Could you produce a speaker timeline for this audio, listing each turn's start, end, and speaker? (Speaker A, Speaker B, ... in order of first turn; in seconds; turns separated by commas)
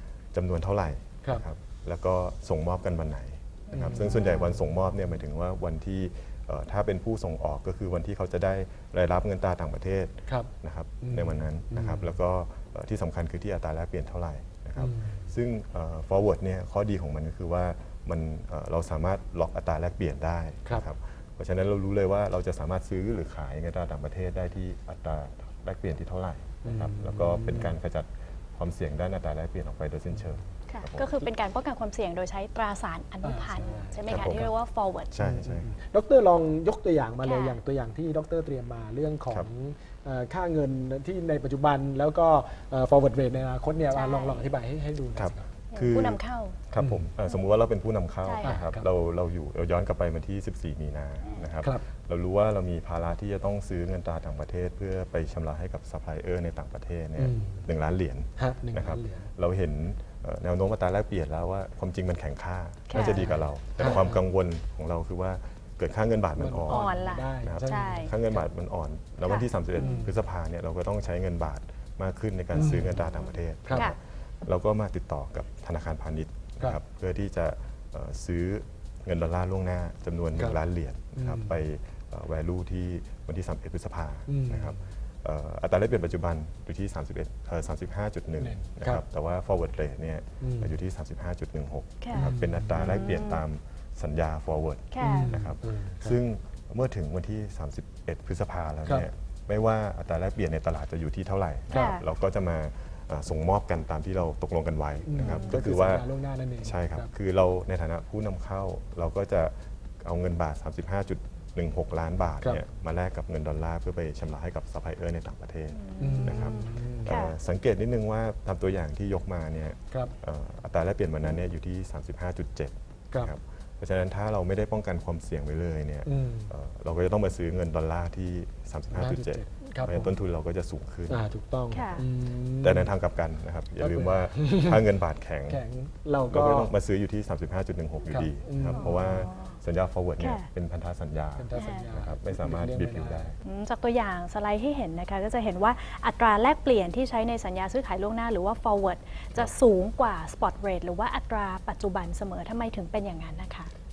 Speaker A: 0.3-31.3, Speaker B: 3.7-4.4, Speaker C: 3.7-4.7, Speaker C: 11.0-12.1, Speaker C: 14.8-15.3, Speaker C: 26.6-27.8, Speaker B: 30.7-35.1, Speaker C: 33.2-34.5, Speaker A: 34.1-34.5, Speaker A: 35.1-35.7, Speaker C: 35.2-45.5, Speaker B: 37.2-37.6, Speaker B: 43.9-44.5, Speaker A: 45.1-106.1, Speaker B: 45.7-46.6, Speaker C: 46.8-47.0, Speaker B: 48.2-48.6, Speaker C: 48.4-48.8, Speaker C: 57.2-57.7, Speaker C: 58.4-59.3, Speaker B: 62.9-64.0, Speaker C: 62.9-64.2, Speaker C: 66.4-68.4, Speaker B: 66.7-68.1, Speaker B: 69.2-70.1, Speaker C: 69.8-70.2, Speaker C: 72.5-73.0, Speaker B: 73.7-74.0, Speaker C: 81.2-81.6, Speaker C: 84.3-84.8, Speaker C: 88.4-89.0, Speaker C: 90.4-90.7, Speaker B: 92.0-93.4, Speaker C: 92.1-93.0, Speaker B: 94.9-95.4, Speaker C: 95.0-96.2, Speaker B: 101.7-102.0, Speaker C: 105.0-107.1, Speaker B: 105.2-105.6, Speaker A: 106.6-131.3, Speaker B: 115.7-117.3, Speaker C: 116.0-117.1, Speaker C: 126.0-126.5, Speaker C: 128.9-130.1, Speaker C: 131.1-133.0, Speaker B: 131.7-132.0, Speaker A: 132.4-135.6, Speaker C: 133.8-134.8, Speaker C: 135.5-136.7, Speaker A: 136.3-143.3, Speaker C: 138.1-139.0, Speaker B: 138.7-139.5, Speaker B: 140.2-140.5, Speaker C: 141.4-143.3, Speaker B: 141.5-141.9, Speaker B: 143.4-153.7